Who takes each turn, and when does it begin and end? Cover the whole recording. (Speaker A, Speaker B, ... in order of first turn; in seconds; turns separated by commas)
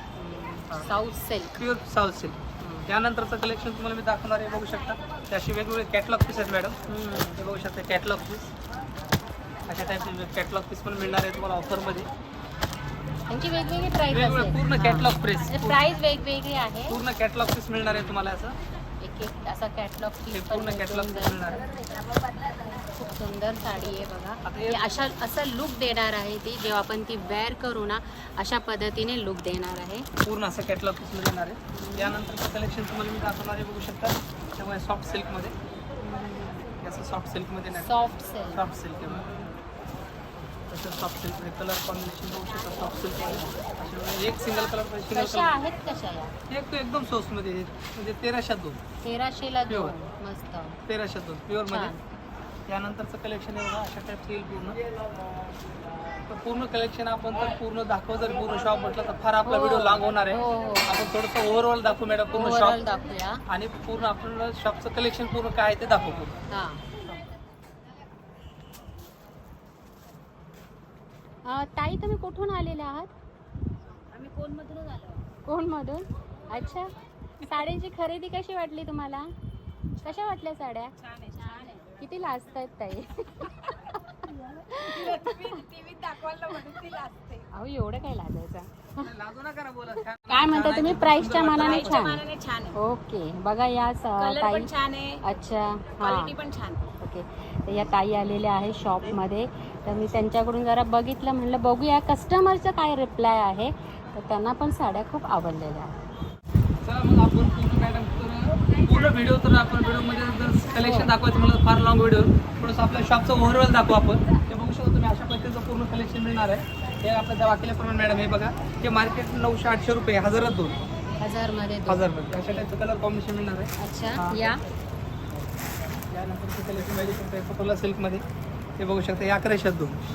Speaker A: 0.1-1.6, Speaker B: 1.6-6.8, Speaker A: 2.6-2.9, Speaker A: 6.9-7.4, Speaker B: 7.3-8.5, Speaker B: 9.7-12.1, Speaker A: 13.3-17.0, Speaker B: 14.1-15.8, Speaker B: 16.9-18.6, Speaker A: 19.0-21.7, Speaker B: 20.3-21.6, Speaker A: 22.9-30.1, Speaker B: 24.4-24.8, Speaker B: 30.2-35.5, Speaker A: 31.7-32.1, Speaker A: 36.0-36.7, Speaker B: 36.8-38.0, Speaker A: 37.7-39.5, Speaker B: 38.5-39.3, Speaker B: 40.7-45.5, Speaker A: 45.1-46.3, Speaker B: 46.5-48.8, Speaker A: 49.0-50.8, Speaker B: 49.7-50.0, Speaker B: 50.9-51.9, Speaker A: 51.7-52.0, Speaker B: 52.7-54.8, Speaker B: 56.3-62.8, Speaker A: 59.4-61.0, Speaker A: 62.3-63.4, Speaker B: 63.5-66.3, Speaker A: 66.5-66.8, Speaker A: 71.4-73.1, Speaker C: 74.1-75.2, Speaker A: 75.4-79.3, Speaker A: 80.0-85.7, Speaker C: 84.9-87.4, Speaker A: 87.5-89.1, Speaker B: 89.0-92.2, Speaker A: 90.2-94.7, Speaker C: 91.5-92.8, Speaker C: 94.2-95.2, Speaker A: 95.2-96.3, Speaker C: 96.0-96.8, Speaker A: 97.0-106.0, Speaker B: 106.8-120.8, Speaker A: 110.7-111.1, Speaker A: 121.2-122.7, Speaker B: 121.9-124.5, Speaker A: 123.8-124.6, Speaker B: 126.1-128.2, Speaker B: 128.8-130.0